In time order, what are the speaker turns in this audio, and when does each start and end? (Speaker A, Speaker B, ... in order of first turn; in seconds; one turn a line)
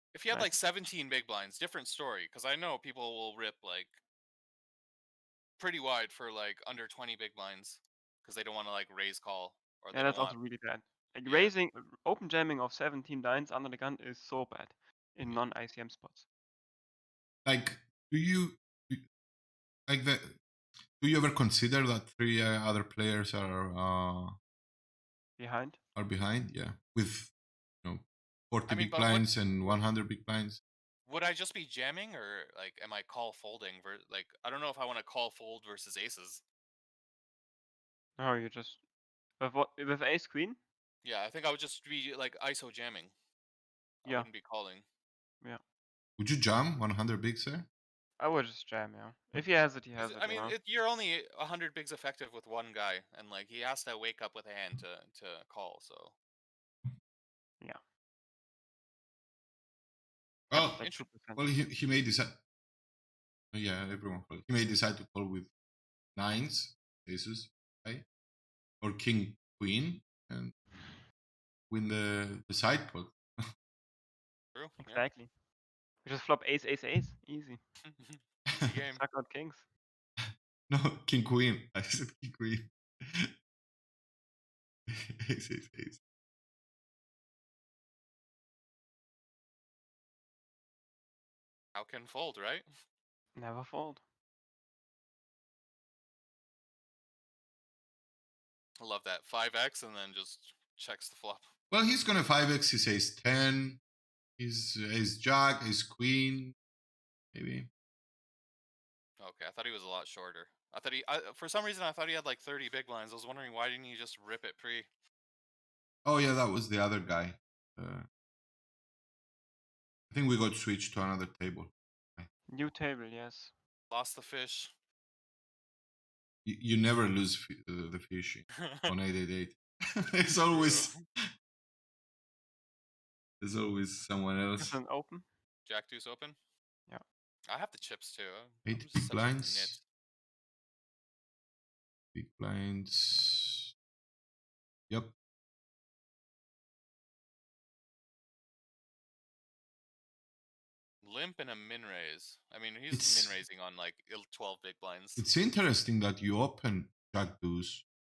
Speaker A: 0.1-4.0
Speaker A: 5.6-10.4
Speaker B: 9.9-16.2
Speaker A: 11.2-11.5
Speaker C: 17.4-19.1
Speaker C: 19.9-20.4
Speaker C: 21.0-24.3
Speaker B: 25.4-25.8
Speaker C: 25.9-27.3
Speaker C: 27.8-30.6
Speaker A: 28.7-29.8
Speaker A: 31.1-36.4
Speaker B: 38.2-38.8
Speaker B: 39.4-40.6
Speaker A: 41.0-43.1
Speaker A: 44.0-44.8
Speaker C: 46.2-47.7
Speaker B: 48.2-50.5
Speaker A: 50.0-56.1
Speaker C: 60.5-60.8
Speaker A: 60.5-61.0
Speaker B: 60.5-61.5
Speaker C: 61.3-62.4
Speaker C: 63.5-65.5
Speaker C: 66.1-68.0
Speaker C: 68.8-70.5
Speaker C: 71.7-73.2
Speaker A: 74.5-75.1
Speaker B: 74.8-75.3
Speaker B: 76.0-77.6
Speaker A: 77.8-79.0
Speaker B: 79.0-79.6
Speaker C: 80.7-83.3
Speaker C: 84.9-86.0
Speaker A: 91.7-92.6
Speaker B: 93.3-94.0
Speaker A: 98.8-101.5
Speaker C: 101.7-103.8
Speaker C: 104.4-106.5
Speaker C: 107.3-107.7
Speaker A: 109.2-114.9
Speaker C: 116.0-118.0
Speaker C: 120.1-122.3
Speaker B: 122.5-123.5
Speaker A: 123.9-124.7
Speaker C: 126.4-129.6
Speaker C: 130.1-131.0
Speaker A: 130.5-131.0
Speaker C: 133.4-134.7
Speaker B: 134.6-135.2
Speaker A: 135.7-136.3
Speaker A: 137.5-139.8
Speaker C: 138.7-139.7
Speaker C: 142.1-143.7
Speaker C: 144.9-145.1
Speaker A: 151.0-155.2
Speaker C: 152.9-153.3
Speaker C: 155.2-157.8